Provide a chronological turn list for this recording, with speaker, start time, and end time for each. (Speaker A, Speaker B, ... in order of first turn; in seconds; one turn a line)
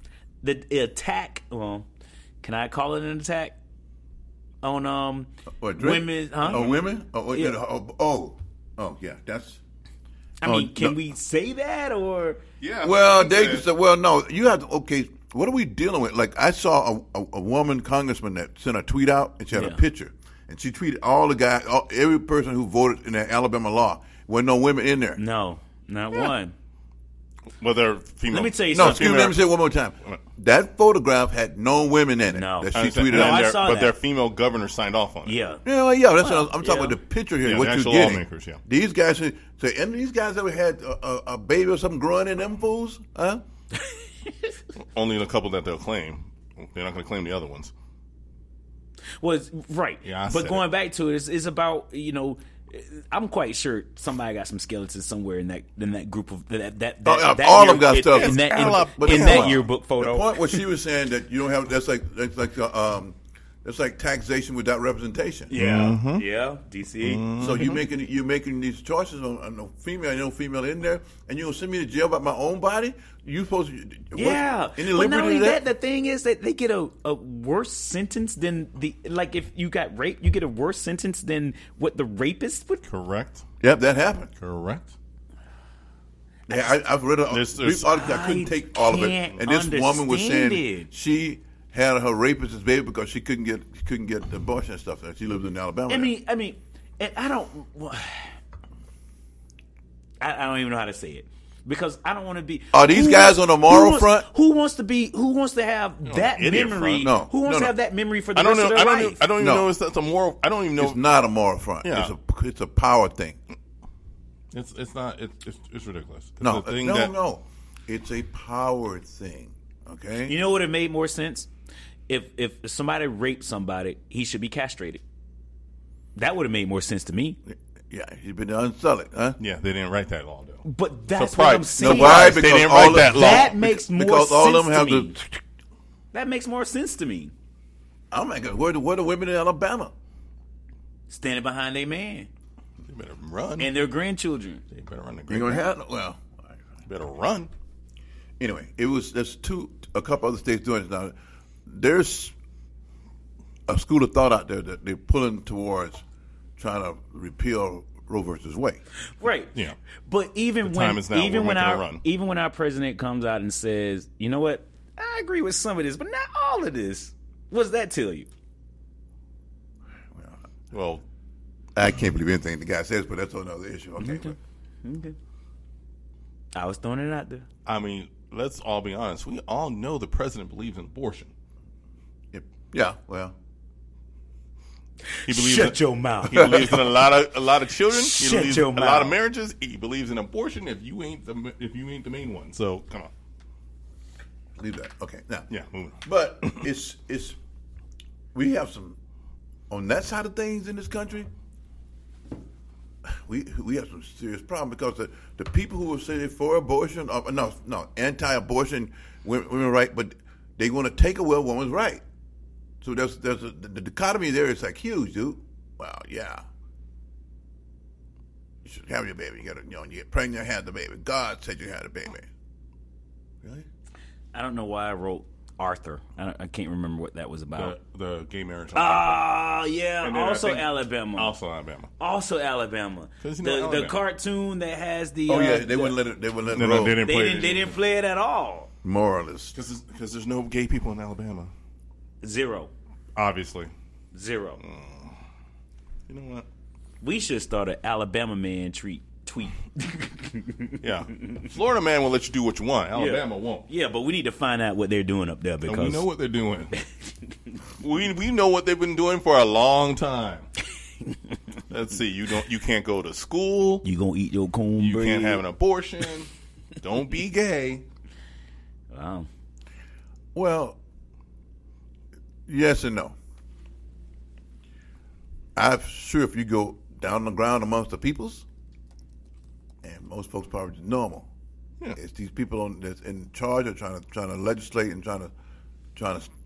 Speaker A: 0.4-1.9
Speaker A: 2.4-3.6
Speaker A: 4.6-7.6
Speaker B: 5.6-9.6
Speaker C: 6.4-6.8
Speaker A: 10.4-12.4
Speaker B: 10.4-11.0
Speaker C: 12.6-13.7
Speaker B: 12.8-25.2
Speaker A: 19.5-19.8
Speaker A: 25.2-26.5
Speaker C: 27.6-29.5
Speaker A: 28.3-29.3
Speaker B: 28.7-33.5
Speaker A: 32.3-34.0
Speaker C: 32.8-35.4
Speaker A: 35.3-35.6
Speaker B: 35.6-43.4
Speaker A: 36.2-37.0
Speaker C: 37.4-38.6
Speaker C: 44.8-47.7
Speaker A: 49.2-60.4
Speaker C: 50.0-50.6
Speaker B: 57.0-65.5
Speaker C: 58.0-59.7
Speaker A: 65.5-67.7
Speaker C: 65.5-66.2
Speaker C: 67.0-67.8
Speaker B: 67.4-75.6
Speaker A: 74.1-82.8
Speaker C: 82.9-83.4
Speaker B: 83.6-84.3
Speaker C: 84.4-84.9
Speaker B: 86.5-96.1
Speaker C: 87.3-88.0
Speaker A: 87.9-90.9
Speaker A: 95.9-98.3
Speaker A: 100.2-109.3
Speaker B: 102.7-104.3
Speaker C: 106.1-107.1
Speaker B: 107.0-107.7
Speaker C: 108.3-111.0
Speaker B: 109.4-109.7
Speaker B: 110.8-113.4
Speaker C: 111.8-112.1
Speaker C: 114.5-117.1
Speaker B: 116.4-120.3
Speaker A: 120.3-121.5
Speaker A: 122.1-125.0
Speaker A: 126.2-127.4
Speaker B: 127.5-129.4
Speaker C: 129.4-133.6
Speaker A: 130.6-135.2
Speaker B: 131.8-135.4
Speaker A: 136.1-137.3
Speaker B: 138.1-139.9
Speaker A: 141.1-142.3
Speaker C: 142.9-143.7
Speaker A: 143.6-144.6
Speaker C: 144.7-145.7
Speaker B: 145.3-146.3
Speaker C: 146.9-147.5
Speaker B: 148.4-151.1
Speaker B: 151.7-152.3
Speaker B: 153.7-156.0
Speaker B: 156.6-158.8
Speaker A: 159.2-159.6
Speaker A: 160.1-168.3
Speaker C: 160.6-162.0
Speaker B: 170.1-170.4
Speaker C: 170.7-171.0
Speaker B: 171.8-174.4
Speaker A: 174.0-175.2
Speaker A: 176.6-177.5
Speaker C: 177.7-181.3
Speaker B: 182.3-183.3
Speaker A: 185.2-186.9
Speaker C: 185.3-193.1
Speaker A: 187.9-189.2
Speaker B: 194.6-195.5
Speaker C: 195.5-196.7
Speaker B: 196.1-197.4
Speaker B: 198.3-199.0
Speaker B: 199.7-201.3
Speaker B: 203.1-212.0
Speaker B: 212.8-216.4
Speaker B: 218.7-222.3
Speaker A: 224.3-227.8
Speaker C: 227.6-229.3
Speaker A: 228.8-231.4
Speaker C: 230.0-231.9
Speaker A: 232.0-236.0
Speaker C: 233.2-234.0
Speaker B: 235.3-237.0
Speaker C: 236.5-237.8
Speaker A: 237.0-238.7
Speaker B: 238.8-239.6
Speaker C: 239.6-241.5
Speaker A: 242.2-242.7
Speaker C: 243.2-243.7
Speaker A: 244.1-244.6
Speaker C: 244.6-245.2
Speaker C: 246.1-246.5
Speaker A: 247.0-250.8
Speaker C: 250.8-253.7
Speaker A: 252.9-256.1
Speaker C: 255.7-256.8
Speaker C: 257.8-260.5
Speaker C: 261.7-263.8
Speaker A: 263.8-265.4
Speaker C: 264.8-267.8
Speaker A: 268.9-269.3
Speaker B: 270.4-270.8
Speaker B: 272.5-273.2
Speaker B: 275.6-278.4
Speaker B: 279.8-281.3
Speaker B: 281.9-285.3
Speaker B: 285.9-286.3